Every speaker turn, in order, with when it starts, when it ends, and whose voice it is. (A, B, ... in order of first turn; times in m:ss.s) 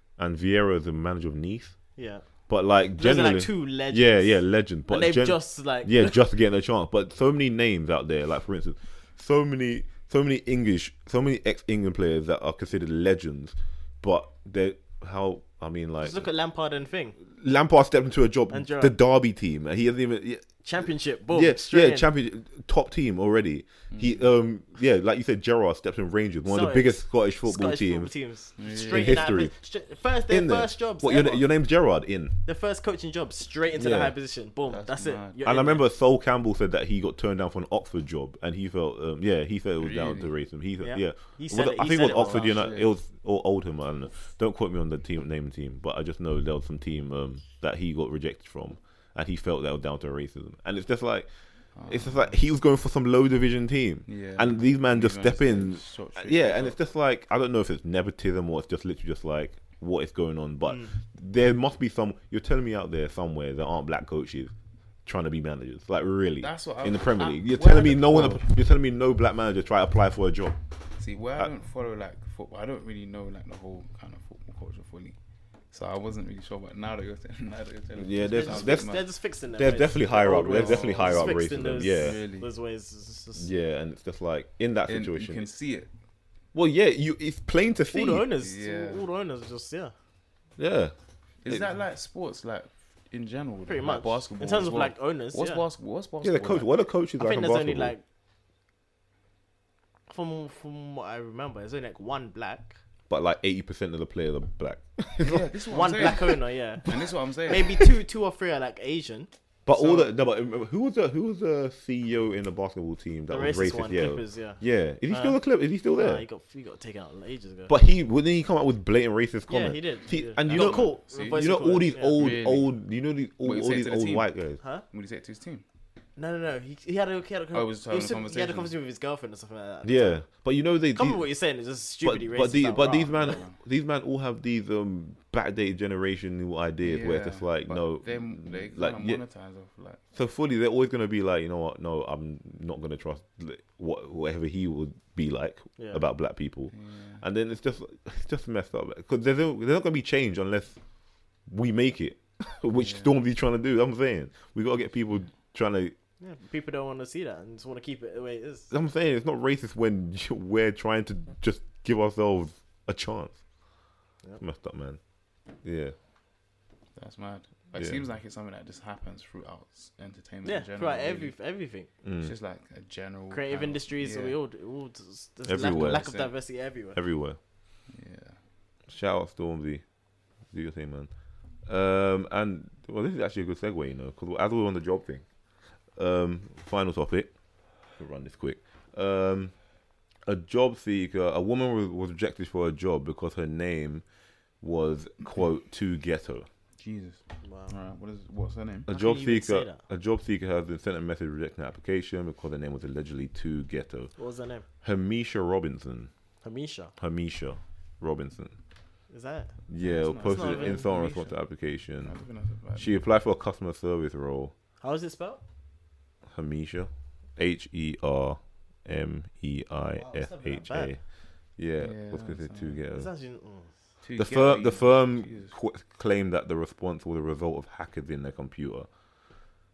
0:00.2-0:01.8 A
0:02.0-0:02.2 B
0:02.5-0:16.3 A
0:03.0-0:06.2 B
0:16.0-0:17.2 B
0:17.3-0:20.6 A
0:18.5-0:18.9 B
0:20.6-0:22.1 B
0:21.3-0:28.1 A
0:23.9-0:24.3 C
0:26.4-0:31.5 B
0:28.6-0:29.3 C
0:28.9-0:29.5 A
0:30.3-0:32.4 A
0:32.4-0:35.8 B
0:33.7-0:34.1 A
0:34.7-0:35.4 C
0:35.4-0:51.3 A
0:39.8-0:40.3 C
0:40.8-0:42.7 B
0:42.4-0:42.9 C
0:51.7-0:52.4 C
0:51.9-1:04.5 A
0:54.0-0:56.8 C
1:00.7-1:00.9 B
1:05.0-1:10.6 A
1:06.4-1:08.5 C
1:11.0-1:15.2 C
1:15.7-1:19.0 C
1:18.0-1:18.9 A
1:18.3-1:23.5 B
1:19.6-1:22.2 A
1:20.2-1:22.5 C
1:23.3-1:25.4 A
1:24.9-1:25.9 C
1:26.5-1:28.3 A
1:27.9-1:29.9 B
1:28.4-1:29.0 C
1:30.6-1:30.9 A
1:31.4-1:36.7 C
1:33.7-1:35.6 B
1:36.2-1:37.9 A
1:37.2-1:38.0 B
1:40.1-1:42.8 B
1:43.1-1:46.3 A
1:45.2-1:47.7 C
1:45.7-1:49.3 B
1:46.8-1:47.9 A
1:49.6-1:56.2 A
1:49.7-1:50.1 C
1:53.3-1:57.7 B
1:57.7-2:04.6 A
1:59.5-2:02.2 B
2:00.4-2:01.4 C
2:02.1-2:02.7 C
2:03.4-2:04.3 C
2:04.9-2:05.6 C
2:06.2-2:10.4 B
2:07.5-2:08.7 C
2:09.8-2:11.2 A
2:10.9-2:13.2 B
2:12.0-2:19.2 A
2:12.8-2:13.6 C
2:16.8-2:20.0 C
2:20.1-2:30.8 A
2:25.8-2:26.0 B
2:26.7-2:27.2 C
2:31.5-2:35.9 A
2:32.8-2:33.1 C
2:36.2-2:38.7 B
2:38.7-2:43.4 A
2:44.4-2:45.0 A
2:45.5-2:45.9 A
2:47.0-2:51.3 C
2:47.7-2:48.0 A
2:50.4-2:51.9 B
2:52.0-2:52.3 A
2:52.2-2:54.3 C
2:53.3-2:57.0 B
2:55.4-2:56.1 A
2:55.6-2:56.3 C
2:56.9-2:57.4 A
2:57.9-2:58.4 C
2:58.9-2:59.8 A
3:00.5-3:01.1 A
3:01.6-3:05.2 A
3:06.0-3:07.3 A
3:07.9-3:09.5 A
3:10.2-3:14.0 A
3:14.6-3:16.4 A
3:16.8-3:18.9 C
3:17.4-3:17.7 B
3:18.9-3:24.1 A
3:18.9-3:19.8 B
3:24.2-3:24.6 B
3:24.8-3:26.1 A
3:26.4-3:26.9 B
3:27.0-3:28.6 A
3:29.1-3:29.5 B
3:29.7-3:32.1 A
3:29.8-3:31.4 C
3:30.2-3:30.9 B
3:32.0-3:33.0 C
3:32.7-3:34.5 A
3:34.8-3:35.4 B
3:36.3-3:41.0 A
3:40.5-3:41.0 B
3:41.6-3:43.1 A
3:41.8-3:42.8 C
3:42.9-3:43.7 B
3:44.0-3:45.5 C
3:44.2-3:48.9 A